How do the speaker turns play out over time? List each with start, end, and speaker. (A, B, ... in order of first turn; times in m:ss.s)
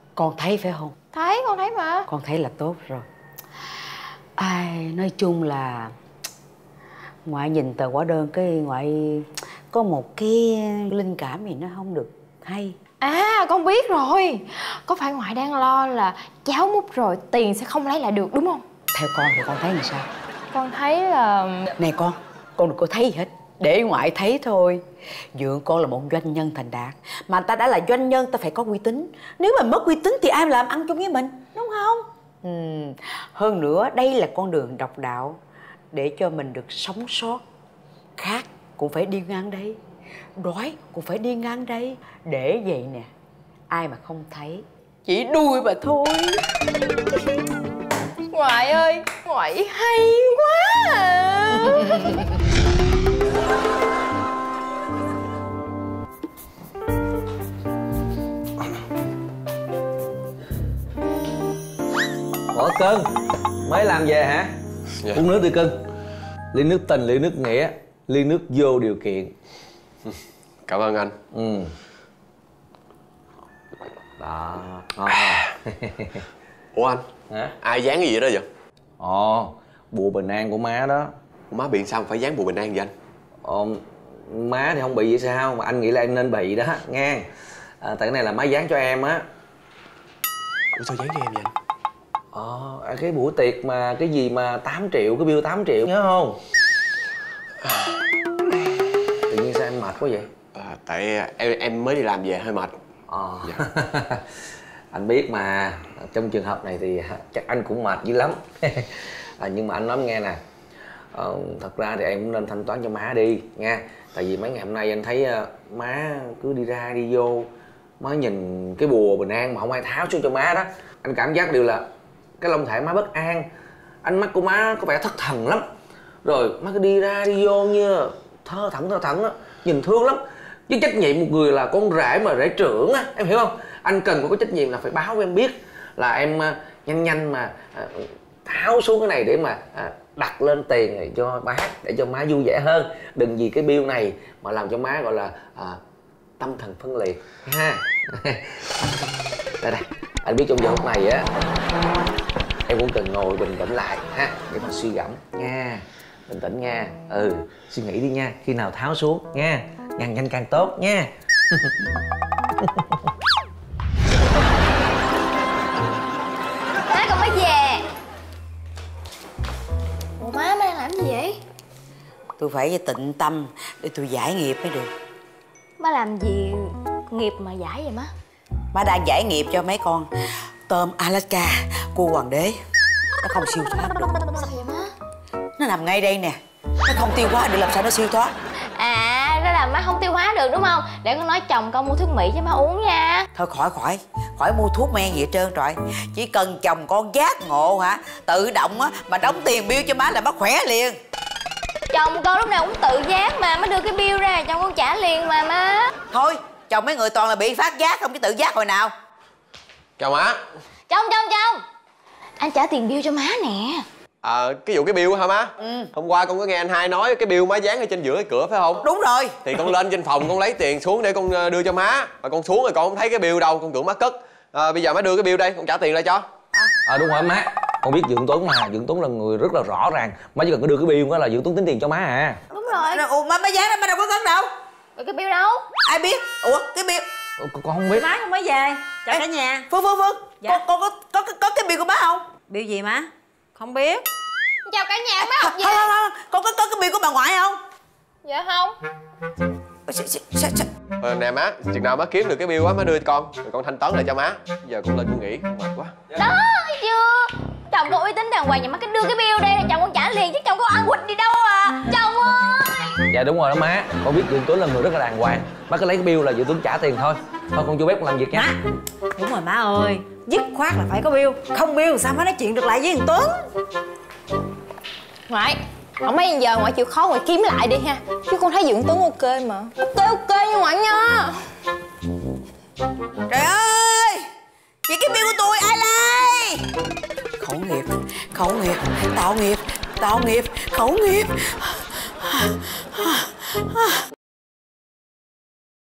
0:00.2-0:00.9 A
0:01.1-0:02.0 B
0:02.1-0:03.0 A
0:04.4-0:05.9 A
0:07.2-0:12.8 A
0:13.0-0:18.6 B
0:18.9-0:20.1 A
0:20.5-0:21.7 B
0:21.8-0:24.8 A
0:25.4-0:35.4 A
0:35.9-0:37.4 A
0:38.2-0:39.8 A
0:40.4-0:43.1 A
0:43.7-0:46.4 A
0:48.3-0:51.8 B
1:02.5-1:03.1 C
1:03.6-1:04.5 C
1:05.0-1:05.2 D
1:05.1-1:05.7 C
1:06.5-1:09.3 C
1:10.0-1:11.1 D
1:11.3-1:11.7 C
1:14.2-1:16.2 C
1:16.7-1:17.0 D
1:17.3-1:17.5 C
1:17.6-1:18.4 D
1:19.0-1:21.1 C
1:21.5-1:22.9 D
1:23.4-1:27.2 C
1:27.8-1:29.2 C
1:30.7-1:31.5 D
1:32.3-1:36.4 C
1:37.6-1:37.9 D
1:39.3-1:40.3 C
1:40.5-1:42.7 D
1:43.1-1:44.2 C
1:44.9-1:50.4 C
1:51.1-2:01.8 C
2:02.4-2:03.5 C
2:04.0-2:05.7 C
2:06.2-2:25.8 C
2:26.4-2:29.1 C
2:29.6-2:31.3 C
2:32.6-2:41.9 C
2:42.6-2:43.0 C
2:46.9-2:47.8 E
2:50.2-2:51.4 E
2:52.4-2:54.9 A
2:55.8-2:58.1 E
2:58.7-3:00.1 A
3:00.7-3:02.6 A
3:03.2-3:04.2 A
3:04.2-3:04.9 E
3:05.6-3:08.3 A
3:08.8-3:13.3 E
3:13.3-3:21.0 A
3:21.9-3:25.9 E
3:26.1-3:28.9 A
3:30.0-3:30.4 D
3:30.9-3:31.6 E
3:32.4-3:33.8 E
3:34.2-3:38.8 D
3:35.6-3:35.9 A
3:38.8-3:39.6 A
3:39.4-3:46.2 D
3:46.8-3:52.4 C
3:52.5-3:53.0 E
3:52.7-3:54.5 A
3:55.0-3:55.6 E
3:55.8-3:57.0 A
3:57.4-3:58.2 C
3:57.9-3:59.6 F
3:59.1-4:02.3 A
4:02.5-4:04.0 F
4:04.6-4:05.9 B
4:05.2-4:07.6 A
4:08.2-4:08.7 B
4:09.9-4:10.7 A
4:11.0-4:15.9 D
4:16.2-4:22.9 E
4:23.1-4:28.5 C
4:28.3-4:28.6 F
4:29.2-4:33.4 F
4:35.3-4:41.4 B
4:43.3-4:44.2 A
4:44.9-4:46.7 A
4:47.4-4:54.0 A